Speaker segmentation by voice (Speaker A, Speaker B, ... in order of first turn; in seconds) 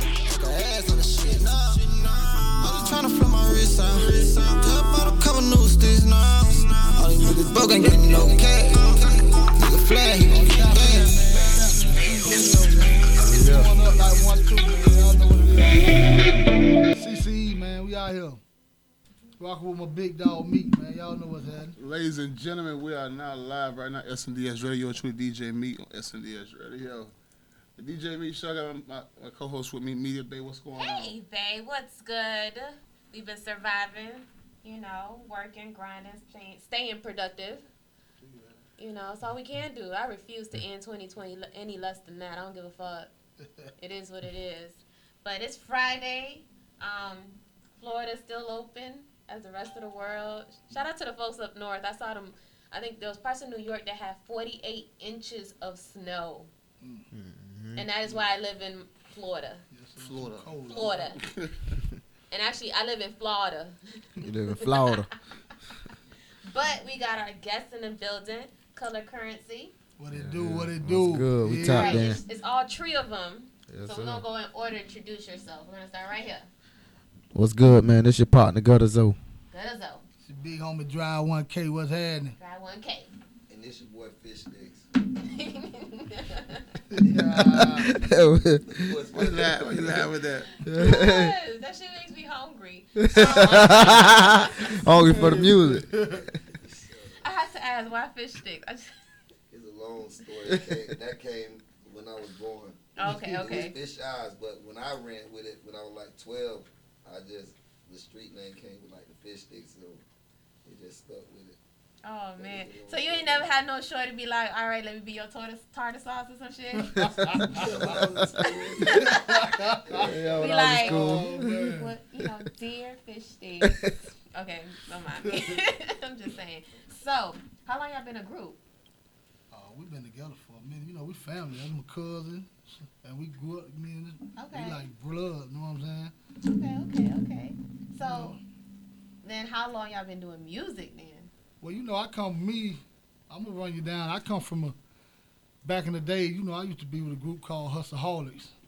Speaker A: 0.2-12.6
Speaker B: 10.3-18.4, 19.4-21.8, 38.2-38.5, 43.4-43.7, 56.8-57.1, 59.7-61.0, 70.0-72.2, 80.2-82.4, 86.9-87.9, 95.1-96.3, 116.8-118.0, 118.8-122.0, 125.2-125.6, 129.5-136.1, 138.0-138.4, 141.6-144.8, 145.6-148.5
Speaker C: 13.2-13.7, 57.1-57.9, 64.2-65.1, 70.1-72.2, 73.7-74.2, 77.3-79.2, 87.3-89.0, 90.6-91.3, 93.0-96.3, 100.5-100.8, 119.9-121.6, 123.6-123.9
Speaker D: 21.8-27.1, 27.8-31.1, 60.0-61.7, 89.1-90.5
Speaker E: 30.8-37.7, 38.8-43.1, 43.8-56.5, 57.8-59.6, 60.7-61.2, 62.3-65.0, 66.4-69.7, 71.6-76.5, 79.5-80.0, 82.4-83.1, 85.2-86.8, 90.6-95.0, 97.2-99.0, 103.0-103.8, 112.0-117.7, 118.4-119.8, 120.3-128.6, 134.4-134.8, 136.4-138.4, 139.2-141.3
Speaker F: 83.5-84.9, 87.0-87.5, 88.7-90.1, 96.4-97.2, 99.5-110.0, 110.6-111.6, 112.4-113.5, 117.5-120.5